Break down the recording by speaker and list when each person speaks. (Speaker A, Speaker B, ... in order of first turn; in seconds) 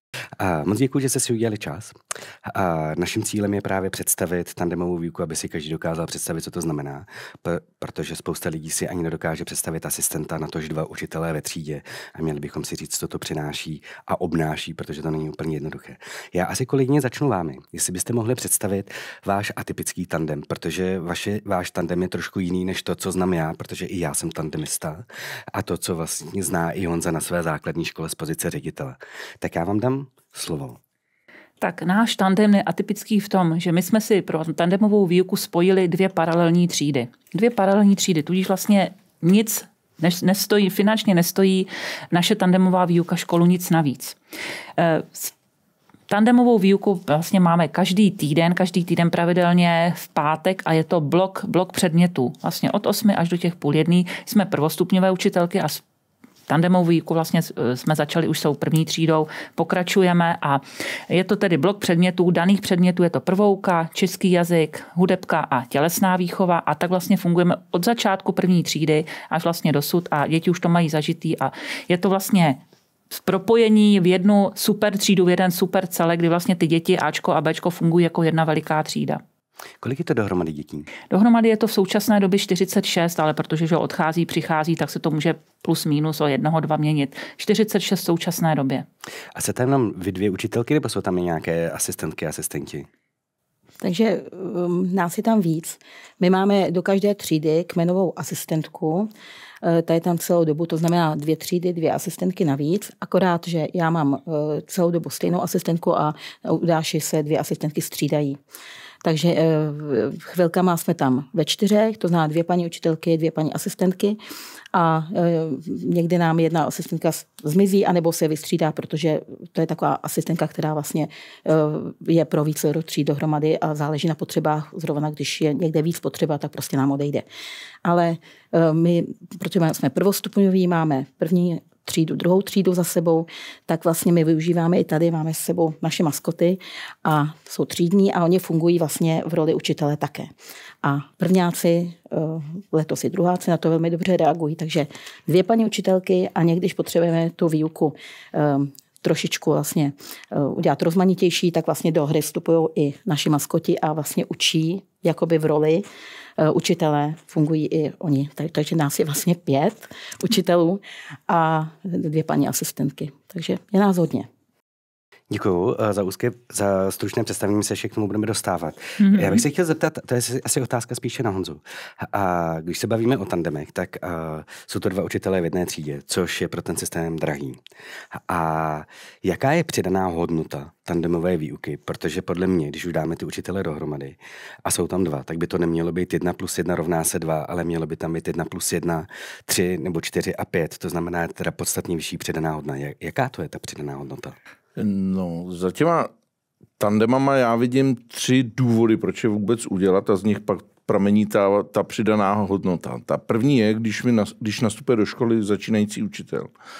Speaker A: 0.4-30.8, 79.8-80.9, 89.3-92.9, 165.3-177.6, 178.1-194.3
Speaker B: 31.6-44.2, 44.8-45.3, 46.1-55.8, 56.5-72.6, 73.1-79.2, 81.1-88.8, 169.0-169.4
Speaker C: 93.8-99.1, 99.6-108.4, 109.0-114.2, 114.7-127.2, 127.8-140.3, 140.8-155.8, 156.4-164.3
Speaker D: 194.8-196.1, 196.8-206.5